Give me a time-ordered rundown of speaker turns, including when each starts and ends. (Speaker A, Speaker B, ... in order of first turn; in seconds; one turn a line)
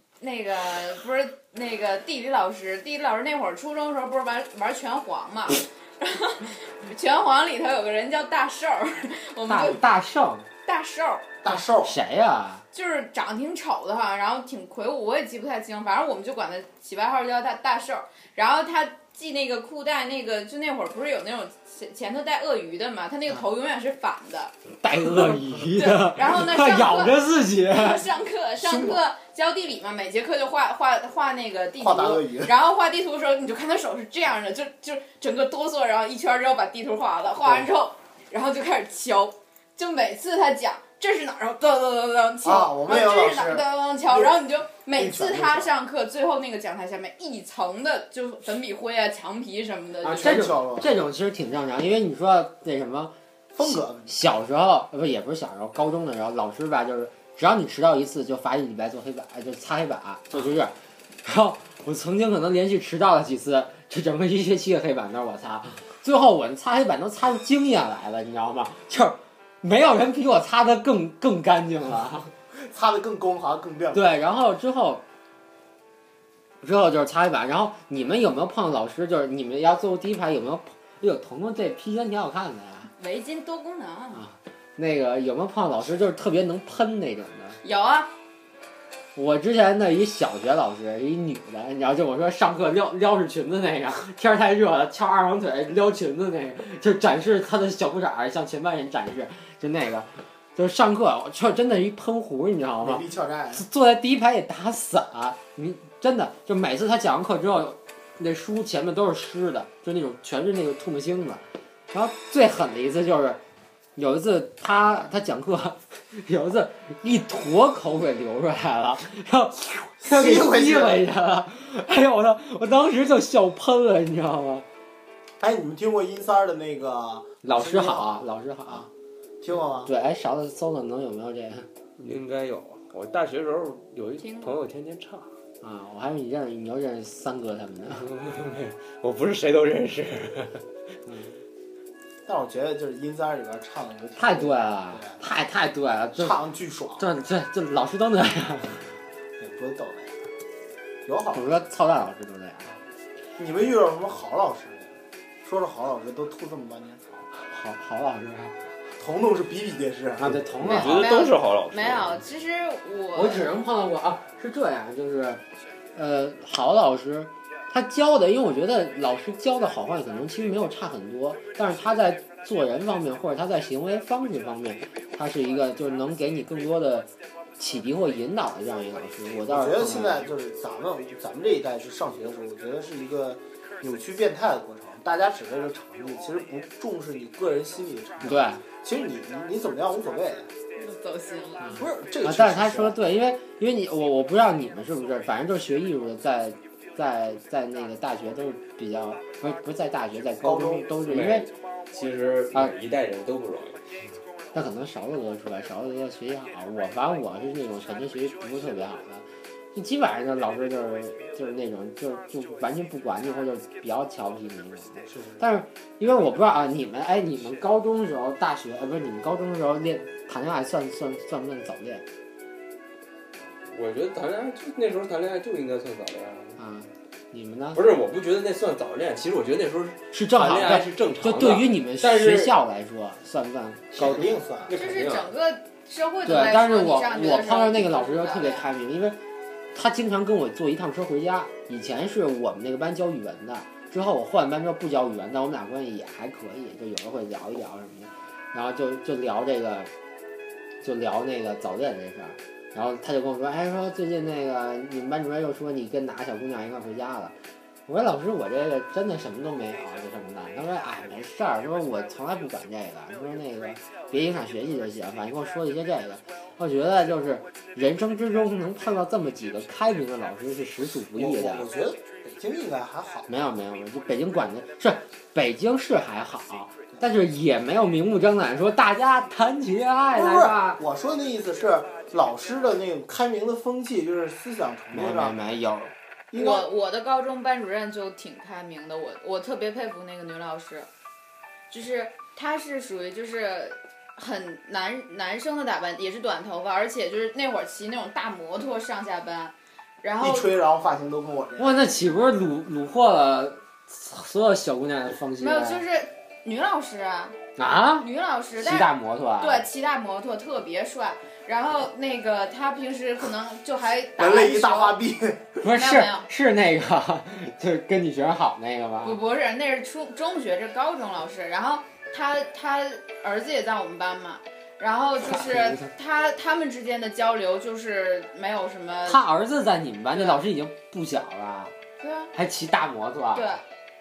Speaker A: 0.2-9.8
Speaker B: 9.5-10.5
Speaker A: 10.6-11.3
Speaker C: 11.4-12.0
Speaker B: 11.5-12.6
Speaker A: 12.7-24.5
Speaker B: 24.8-28.0
Speaker A: 25.7-50.5
Speaker C: 28.6-29.0
Speaker C: 31.8-32.5
Speaker C: 42.4-44.3
Speaker C: 44.9-45.7
Speaker B: 50.0-72.3
Speaker C: 50.1-50.9
Speaker C: 53.5-54.1
Speaker C: 72.5-74.0
Speaker B: 73.9-75.0
Speaker B: 76.6-82.9
Speaker A: 83.0-84.2
Speaker B: 84.1-87.6
Speaker A: 87.6-88.1
Speaker B: 89.2-113.4
Speaker C: 102.8-103.6
Speaker B: 114.0-124.6
Speaker C: 120.0-121.0
Speaker C: 125.4-128.9
Speaker B: 127.4-128.9
Speaker C: 129.4-129.9
Speaker B: 129.9-131.7
Speaker D: 132.0-135.3
Speaker A: 134.2-134.6
Speaker B: 135.6-138.1
Speaker D: 137.9-140.6
Speaker B: 141.1-141.4
Speaker C: 142.3-145.2
Speaker B: 144.2-146.4
Speaker C: 146.2-147.1
Speaker B: 147.0-148.9
Speaker C: 149.4-150.2
Speaker C: 151.1-151.5
Speaker B: 151.3-152.8
Speaker C: 153.4-157.2
Speaker B: 157.5-158.6
Speaker C: 159.0-160.4
Speaker B: 160.2-161.1
Speaker A: 160.6-163.5
Speaker D: 160.6-162.2
Speaker B: 163.1-165.4
Speaker B: 165.9-180.3
Speaker C: 179.5-190.5
Speaker B: 188.2-188.6
Speaker A: 190.8-191.7
Speaker B: 191.6-201.5
Speaker C: 191.8-193.0
Speaker C: 200.4-201.0
Speaker D: 201.0-203.8
Speaker B: 204.5-222.1
Speaker D: 215.1-215.4
Speaker D: 223.6-226.6
Speaker B: 226.6-227.8
Speaker D: 227.7-232.6
Speaker B: 230.1-234.3
Speaker C: 233.9-234.7
Speaker D: 234.7-235.3
Speaker A: 234.7-238.7
Speaker B: 236.3-239.2
Speaker B: 239.7-249.9
Speaker B: 250.8-257.4
Speaker B: 257.9-271.7
Speaker C: 271.1-273.3
Speaker B: 273.3-280.8
Speaker C: 280.1-285.4
Speaker B: 284.9-285.9
Speaker C: 286.3-286.7
Speaker A: 286.3-290.9
Speaker A: 291.7-300.5
Speaker C: 300.2-301.9
Speaker B: 301.6-305.8
Speaker A: 305.4-307.4
Speaker B: 307.6-308.1
Speaker A: 308.0-308.9
Speaker B: 308.6-309.7
Speaker A: 309.4-315.0
Speaker C: 314.2-315.5
Speaker B: 315.6-319.2
Speaker A: 315.7-316.3
Speaker A: 319.0-329.2
Speaker B: 325.3-325.9
Speaker B: 329.1-331.7
Speaker A: 330.1-330.4
Speaker A: 332.0-332.3
Speaker B: 332.3-333.5
Speaker A: 333.3-333.6